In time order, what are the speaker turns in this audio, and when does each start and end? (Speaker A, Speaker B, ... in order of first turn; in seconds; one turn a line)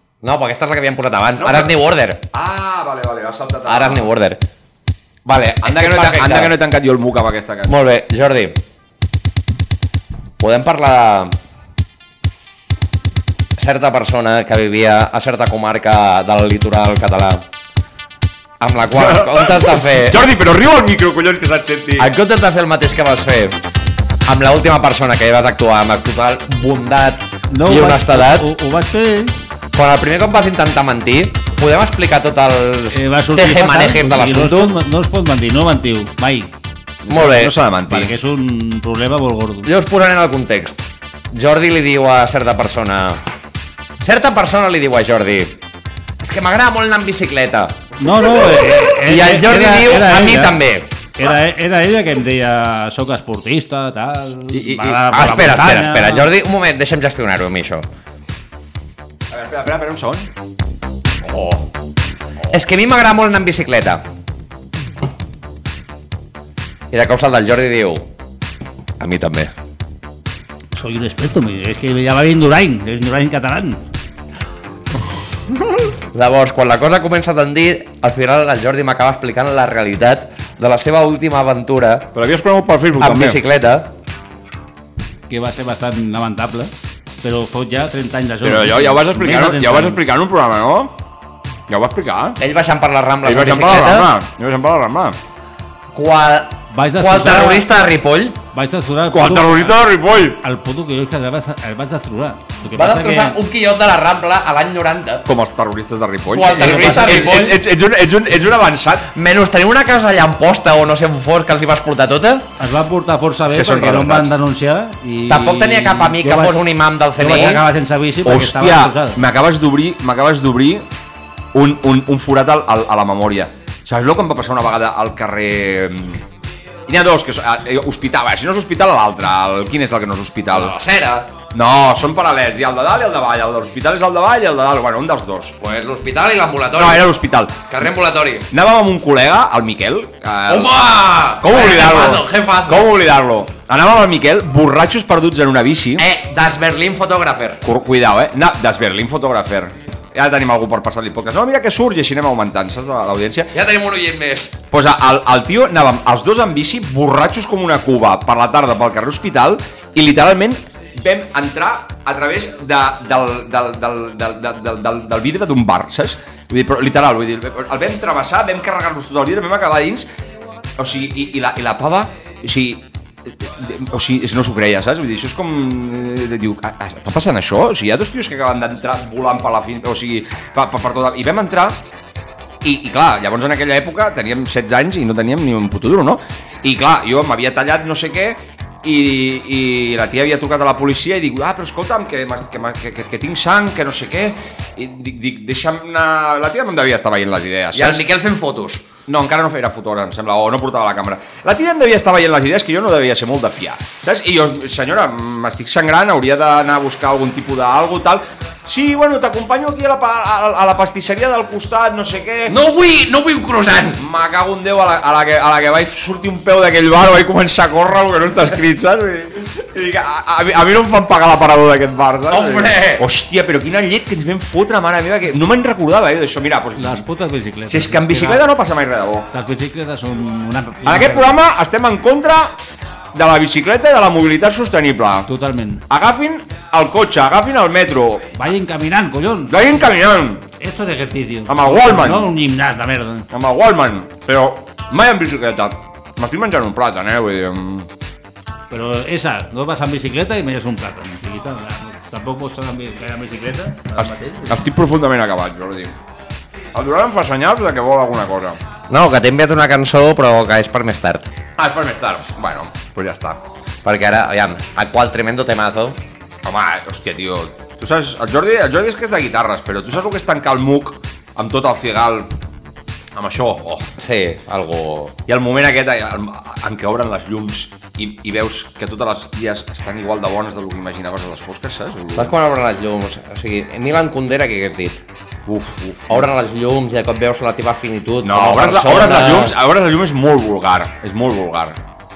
Speaker A: 0.2-2.2
Speaker B: 1.4-1.7
Speaker B: 2.3-4.1
Speaker A: 3.6-4.4
Speaker A: 5.2-6.5
Speaker B: 5.6-7.8
Speaker A: 7.7-8.6
Speaker A: 10.4-11.3
Speaker A: 13.6-17.4
Speaker A: 18.6-20.2
Speaker B: 19.0-22.1
Speaker A: 22.0-23.6
Speaker A: 24.2-28.5
Speaker C: 27.5-29.4
Speaker A: 29.7-34.7
Speaker C: 32.9-36.5
Speaker B: 37.0-38.1
Speaker A: 37.1-37.5
Speaker C: 37.9-39.7
Speaker A: 39.6-43.2
Speaker A: 44.0-45.5
Speaker A: 46.2-50.9
Speaker C: 48.0-50.5
Speaker C: 51.2-56.3
Speaker B: 54.5-55.0
Speaker A: 55.1-57.9
Speaker B: 59.3-60.3
Speaker A: 61.2-61.6
Speaker A: 62.5-64.0
Speaker A: 66.9-68.0
Speaker A: 69.0-69.5
Speaker C: 70.7-73.8
Speaker A: 76.1-82.1
Speaker B: 82.1-83.4
Speaker A: 83.0-83.9
Speaker C: 85.3-86.7
Speaker C: 87.2-90.0
Speaker B: 88.4-90.9
Speaker B: 91.7-92.4
Speaker A: 92.4-94.1
Speaker B: 93.2-95.2
Speaker A: 95.9-98.4
Speaker C: 96.7-97.6
Speaker C: 98.5-99.8
Speaker B: 99.1-100.4
Speaker C: 100.4-103.4
Speaker A: 102.7-105.2
Speaker B: 105.2-109.1
Speaker A: 106.3-107.6
Speaker C: 106.6-107.3
Speaker A: 109.1-112.5
Speaker C: 112.6-116.6
Speaker B: 113.5-114.3
Speaker A: 115.3-117.6
Speaker C: 117.2-119.2
Speaker B: 118.2-120.8
Speaker B: 121.5-126.2
Speaker B: 126.9-130.8
Speaker A: 130.5-131.3
Speaker B: 131.5-135.6
Speaker A: 135.6-137.1
Speaker B: 136.7-137.7
Speaker A: 137.7-138.5
Speaker B: 138.5-140.8
Speaker A: 140.5-142.9
Speaker B: 141.4-146.1
Speaker A: 146.0-147.6
Speaker B: 147.6-153.5
Speaker A: 153.5-154.6
Speaker B: 154.7-170.1
Speaker B: 170.8-181.8
Speaker B: 182.6-198.0
Speaker A: 197.7-198.8
Speaker B: 199.1-212.6
Speaker A: 212.5-214.0
Speaker B: 214.0-227.0
Speaker A: 222.3-223.0
Speaker C: 226.8-228.5
Speaker B: 227.7-229.3
Speaker C: 229.3-231.4
Speaker B: 230.8-232.6
Speaker B: 233.1-235.3
Speaker C: 235.3-235.8
Speaker B: 235.9-238.3
Speaker C: 238.3-239.8
Speaker B: 239.5-240.4
Speaker C: 240.6-243.3
Speaker B: 241.5-242.3
Speaker B: 243.3-247.9
Speaker C: 248.7-254.6
Speaker B: 254.0-255.9
Speaker B: 256.7-258.6
Speaker A: 258.9-261.3
Speaker B: 261.6-263.4
Speaker A: 263.8-266.0
Speaker B: 266.4-272.3
Speaker B: 273.1-273.9
Speaker A: 274.0-275.1
Speaker B: 275.3-282.3
Speaker A: 282.1-285.0
Speaker B: 285.4-286.3
Speaker A: 286.1-289.5
Speaker B: 288.2-291.8